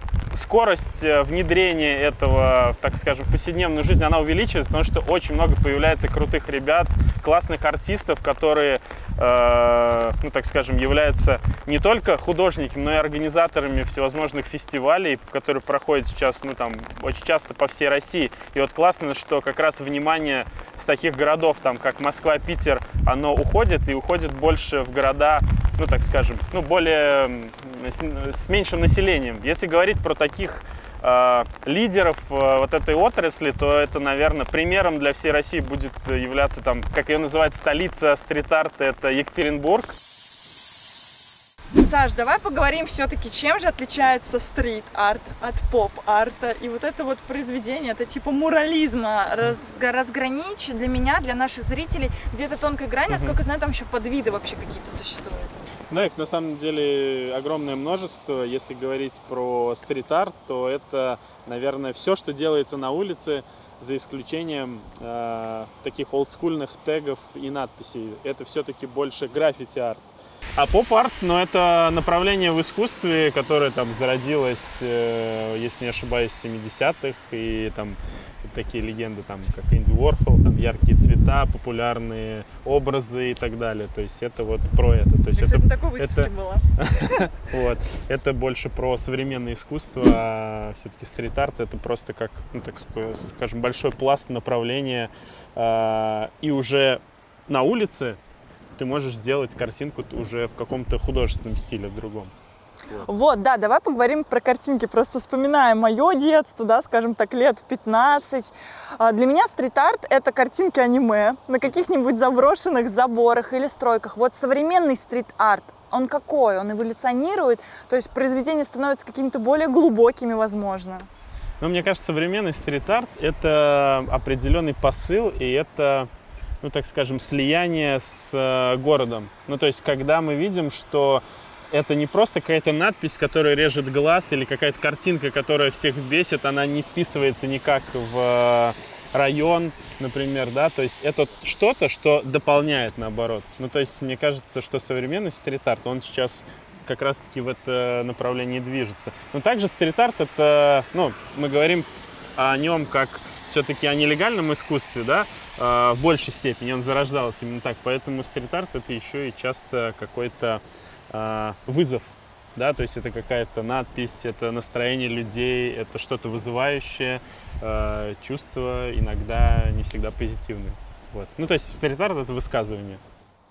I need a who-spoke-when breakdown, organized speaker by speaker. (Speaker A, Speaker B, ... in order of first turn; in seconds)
Speaker A: 0.3-40.0, 53.1-53.4, 55.9-98.2, 98.8-102.3, 121.6-126.1, 126.6-173.0
Speaker B: 41.8-55.6, 85.3-86.7, 103.0-121.1